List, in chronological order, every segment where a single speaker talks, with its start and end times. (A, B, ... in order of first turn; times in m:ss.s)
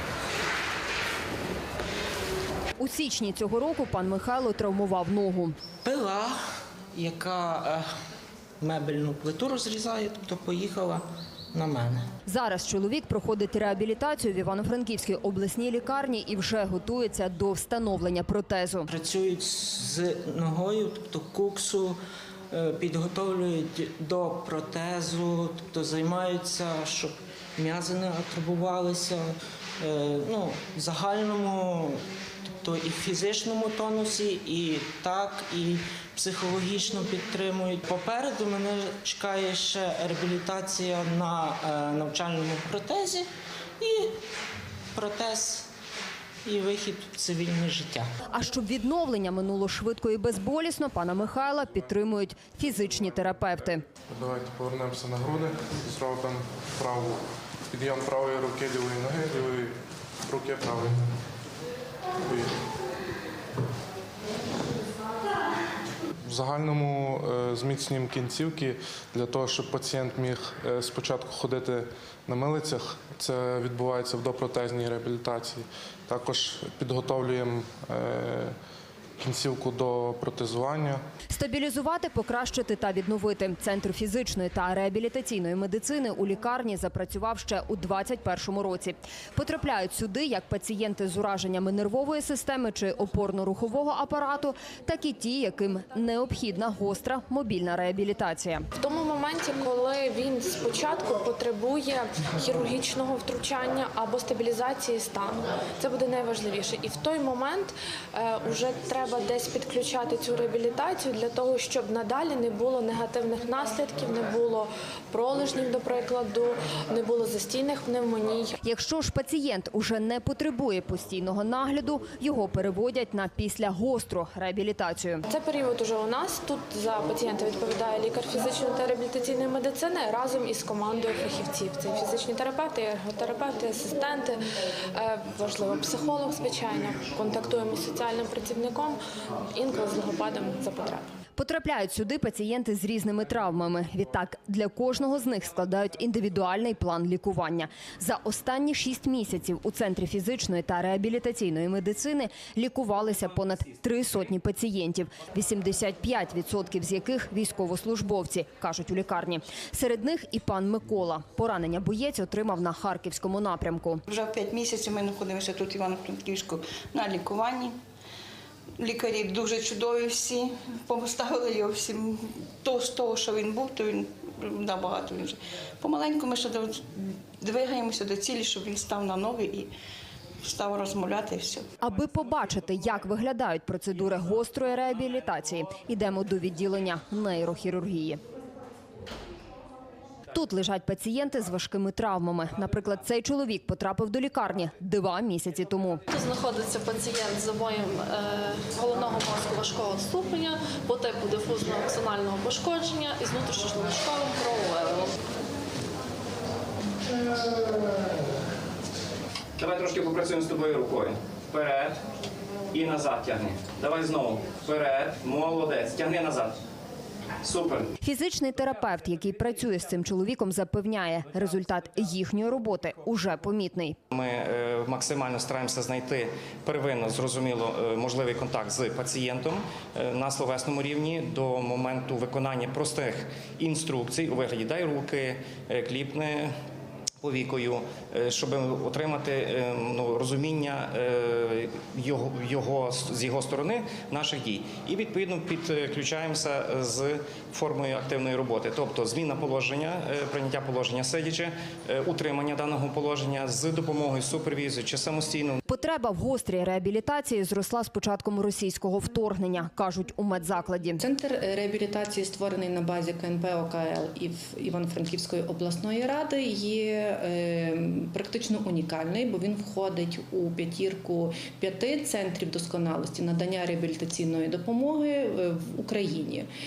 0:02.8-0:05.6 A
0:05.8-0:06.4 B
0:06.9-0:07.9 B
0:08.6-0:12.0 B
0:12.3-0:18.9 A
0:18.9-0:22.0 B
0:22.5-0:32.0 B
0:32.6-0:43.3 B
0:43.8-0:44.1 B
0:45.0-0:45.7 B
0:46.4-0:48.1 B
0:48.3-0:53.8 A
0:54.1-0:59.7 C
1:00.3-1:01.0 C
1:02.2-1:02.5 C
1:06.3-1:18.6 C
1:19.2-1:21.0 C
1:21.3-1:38.7 A
1:38.8-1:58.6 D
1:58.6-2:05.2 A
2:05.3-2:14.4 D
2:14.9-2:19.0 D
2:19.5-2:21.0 D
2:21.4-2:44.0 A
2:44.1-2:47.8 E
2:48.8-2:59.7 E
3:00.4-3:01.7 E
3:01.8-3:08.2 A
3:10.3-3:16.0 A
3:16.1-3:25.1 F
3:29.6-3:32.0 G
3:32.7-3:36.6 G
3:37.4-3:37.9 G
3:38.0-3:44.0 A
3:44.1-3:56.5 G
3:57.2-4:15.6 G
4:15.7-4:21.0 A
4:21.0-4:36.5 H